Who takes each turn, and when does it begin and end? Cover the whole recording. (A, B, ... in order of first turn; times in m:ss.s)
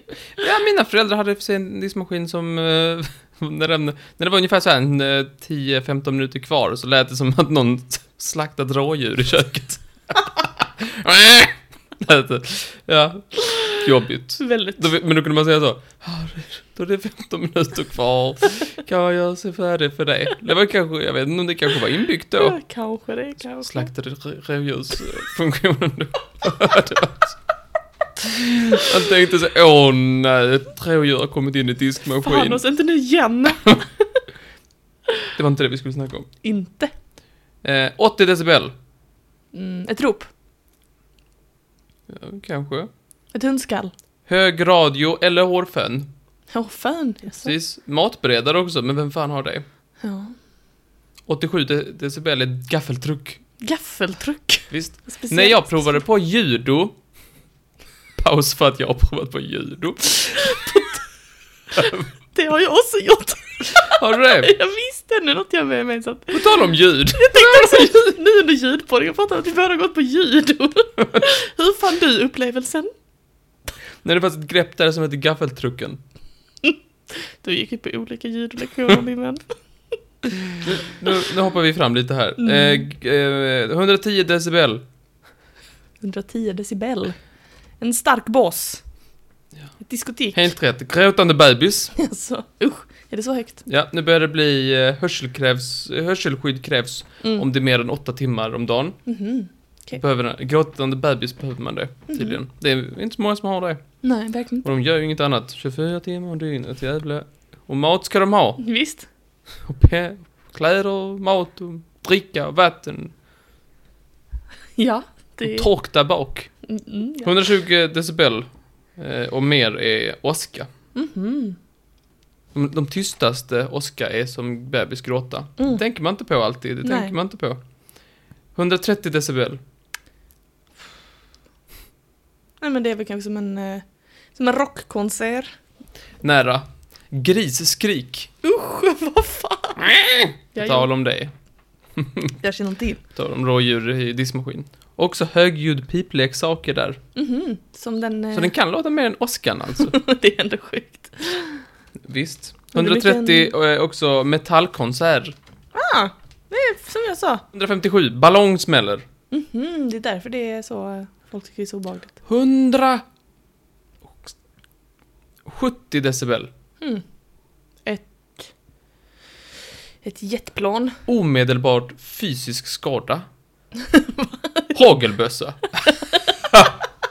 0:00.4-0:22.6 A
0:13.4-0:13.8 B
0:14.4-0:14.9 B
0:22.4-0:23.9 B
0:23.6-0:27.4 A
0:28.2-0:32.6 A
0:32.2-0:34.0 B
0:35.3-0:36.3 A
0:36.4-0:36.9 B
0:37.6-0:38.7 A
0:39.5-0:40.3 B
0:42.1-0:42.9 A
0:43.3-0:43.9 B
0:44.3-0:46.1 A
0:46.5-0:47.5 B
0:47.4-0:49.6 A
0:50.0-0:50.3 B
0:51.3-0:53.4 A
0:53.6-0:56.0 B
0:54.7-0:57.0 A
0:58.2-1:00.6 A
1:00.4-1:01.0 B
1:01.7-1:02.0 A
1:02.3-1:06.5 B
1:03.9-1:04.5 A
1:06.3-1:08.1 A
1:07.1-1:12.9 B
1:14.0-1:16.0 A
1:17.4-1:19.5 B
1:20.6-1:24.8 A
1:22.4-1:22.8 B
1:26.0-1:27.2 B
1:27.8-1:28.8 B
1:29.8-1:30.4 B
1:30.3-1:31.9 A
1:31.9-1:33.6 B
1:33.6-1:39.0 A
1:39.0-1:40.0 B
1:39.9-1:44.0 A
1:42.1-1:42.4 B
1:44.0-1:44.7 B
1:44.6-1:48.6 A
1:48.6-1:49.1 B
1:49.6-1:53.1 A
1:54.8-1:55.7 B
1:55.4-1:56.5 A
1:56.6-1:57.3 B
1:57.2-2:00.7 A
2:00.9-2:01.6 B
2:02.5-2:07.6 A
2:06.8-2:07.1 B
2:08.5-2:09.6 A
2:12.6-2:15.5 B
2:16.2-2:18.3 A
2:18.4-2:19.9 B
2:19.8-2:21.3 A
2:20.5-2:20.9 B
2:22.0-2:22.3 A
2:22.4-2:23.0 B
2:23.1-2:27.0 A
2:27.1-2:28.5 B
2:28.3-2:30.0 A
2:29.8-2:31.6 B
2:32.0-2:35.3 A
2:32.7-2:33.5 B
2:35.7-2:37.4 B
2:37.5-2:39.0 A
2:39.3-2:42.2 B
2:42.2-2:43.0 A
2:45.4-2:46.5 A
2:47.8-2:48.5 B
2:50.0-2:51.0 B
2:51.1-2:53.2 A
2:53.8-2:54.7 B
2:54.7-2:55.8 A
2:56.5-2:56.7 A